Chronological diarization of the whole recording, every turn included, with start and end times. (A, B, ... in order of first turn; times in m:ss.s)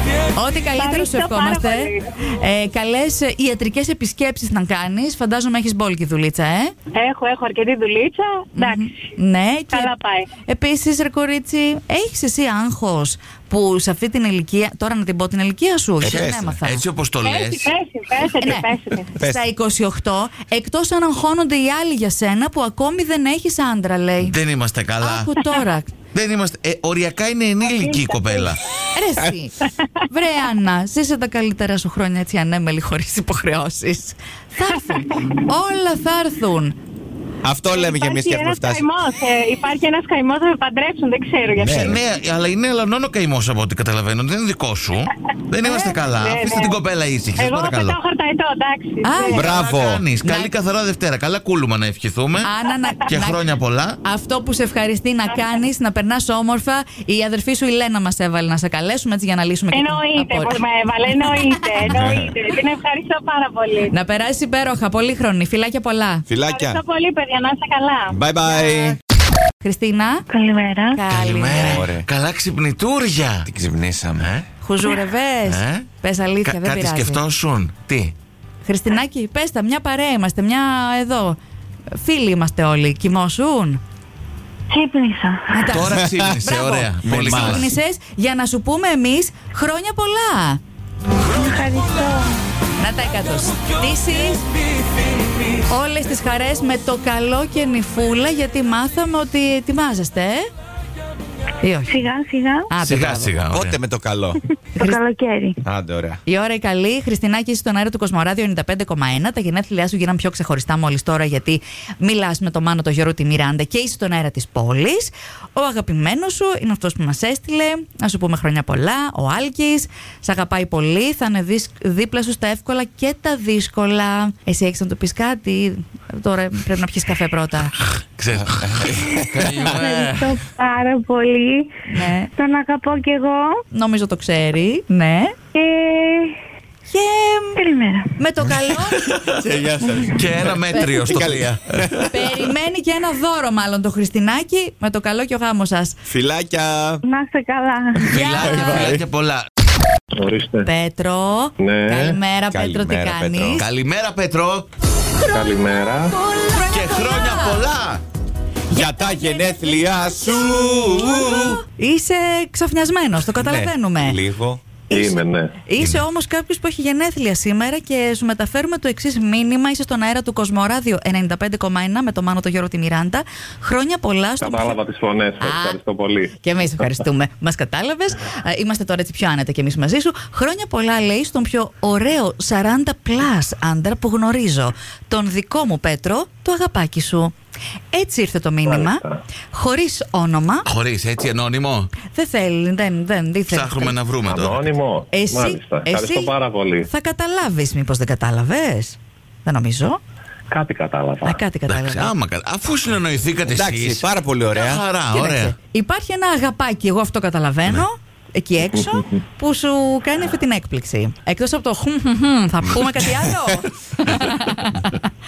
0:00.4-0:06.7 A
0:00.8-0:02.0 B
0:06.9-0:08.9 B
0:08.6-0:09.9 A
0:09.7-0:10.3 B
0:10.5-0:16.8 A
0:16.0-0:16.6 C
0:16.6-0:17.7 D
0:17.2-0:19.1 B
0:18.4-0:24.4 A
0:19.2-0:19.5 C
0:24.2-0:25.3 D
0:25.0-0:26.0 A
0:26.1-0:28.6 D
0:27.6-0:28.5 B
0:29.0-0:36.8 A
0:37.4-0:38.8 C
0:37.7-0:42.0 B
0:41.6-0:42.0 C
0:41.7-0:48.0 D
0:45.6-0:46.0 A
0:46.1-0:46.8 B
0:47.4-0:49.5 B
0:49.0-0:49.5 A
0:49.3-0:50.0 C
0:49.4-0:52.5 D
0:50.2-0:50.5 A
0:52.4-0:53.4 A
0:53.0-0:54.0 D
0:54.0-1:00.6 A
0:59.7-1:03.9 B
1:01.7-1:02.1 A
1:01.9-1:02.3 C
1:03.9-1:06.2 A
1:06.3-1:06.8 C
1:06.5-1:08.2 B
1:08.1-1:09.0 C
1:09.6-1:10.3 A
1:10.3-1:11.0 E
1:10.9-1:11.9 A
1:11.1-1:13.5 D
1:11.5-1:12.1 C
1:13.5-1:14.3 C
1:14.2-1:14.4 D
1:14.6-1:17.2 A
1:15.4-1:15.9 D
1:16.4-1:18.1 D
1:18.6-1:21.4 A
1:21.9-1:23.8 A
1:24.7-1:25.6 E
1:25.5-1:30.6 A
1:25.7-1:27.7 D
1:25.9-1:26.4 C
1:27.0-1:27.7 C
1:31.4-1:32.4 E
1:32.8-1:34.4 A
1:35.7-1:40.5 A
1:41.6-1:42.1 A
1:41.9-1:42.7 E
1:42.7-1:43.4 A
1:42.8-1:43.8 D
1:43.5-1:44.4 C
1:44.8-1:45.0 A
1:44.8-1:45.6 E
1:45.6-1:46.2 C
1:46.3-2:07.7 A
2:08.2-2:10.4 D
2:08.4-2:09.8 C
2:09.6-2:11.7 E
2:11.9-2:12.3 A
2:12.4-2:13.6 E
2:13.7-2:15.4 A
2:15.5-2:16.4 E
2:16.9-2:17.6 A
2:17.6-2:18.1 E
2:18.2-2:19.0 A
2:19.0-2:19.4 D
2:19.3-2:22.1 C
2:19.9-2:22.1 D
2:20.7-2:21.1 A
2:22.0-2:26.0 A
2:26.0-2:27.0 C
2:27.1-2:28.2 E
2:28.1-2:29.4 D
2:28.1-2:28.9 A
2:28.2-2:29.0 C
2:30.2-2:30.7 F
2:30.6-2:33.7 A
2:31.6-2:32.2 F
2:32.5-2:33.6 C
2:33.6-2:34.7 D
2:35.3-2:36.2 F
2:36.1-2:37.6 A
2:36.7-2:38.0 D
2:38.7-2:41.6 C
2:38.8-2:44.2 A
2:43.2-2:44.6 C
2:44.9-2:54.8 A
2:44.9-2:45.6 F
2:45.8-2:46.0 D
2:54.4-2:56.4 F
2:55.4-2:55.8 A
2:56.4-3:07.3 A
3:07.9-3:10.7 A
3:08.7-3:09.2 F
3:10.7-3:12.0 D
3:12.0-3:14.0 A
3:13.5-3:14.7 D
3:14.2-3:16.9 F
3:15.1-3:16.3 A
3:16.8-3:20.0 A
3:20.5-3:21.4 F
3:21.2-3:22.1 A
3:21.7-3:25.6 D
3:23.5-3:24.8 C
3:25.1-3:35.0 A